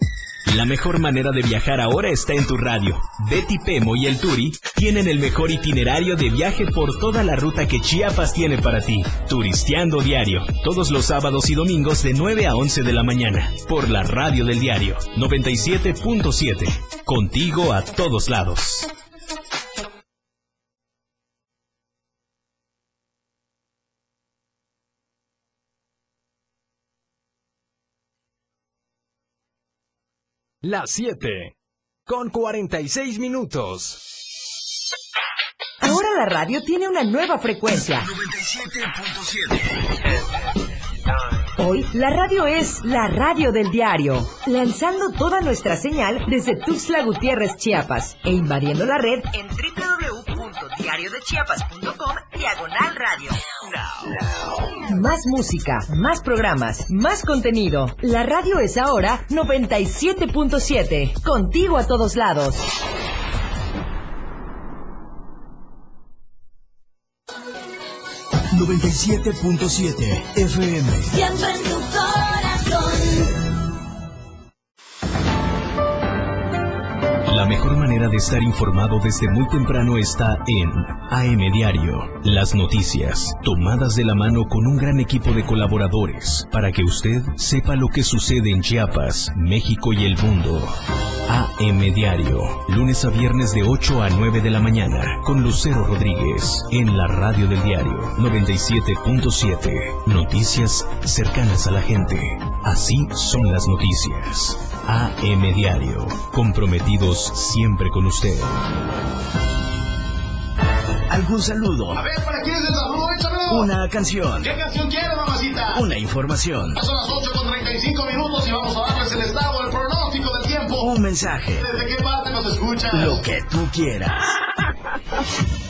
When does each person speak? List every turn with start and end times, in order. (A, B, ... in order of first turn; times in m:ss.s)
0:00.5-0:18.9 A
0:30.6-0:31.5 B
0:32.1-0:34.0 B
0:35.8-0:38.1 C
0:38.2-0:39.6 D
0:41.6-0:54.2 C
0:54.8-1:02.7 C
1:08.5-1:11.2 D
1:17.2-1:48.6 A
1:51.1-1:52.0 D
1:51.9-1:53.7 E
1:53.5-1:54.6 D
1:54.4-1:55.8 E
1:55.7-1:56.8 D
1:56.8-2:00.9 E
2:00.8-2:01.7 D
2:01.6-2:03.2 E
2:02.9-2:04.3 D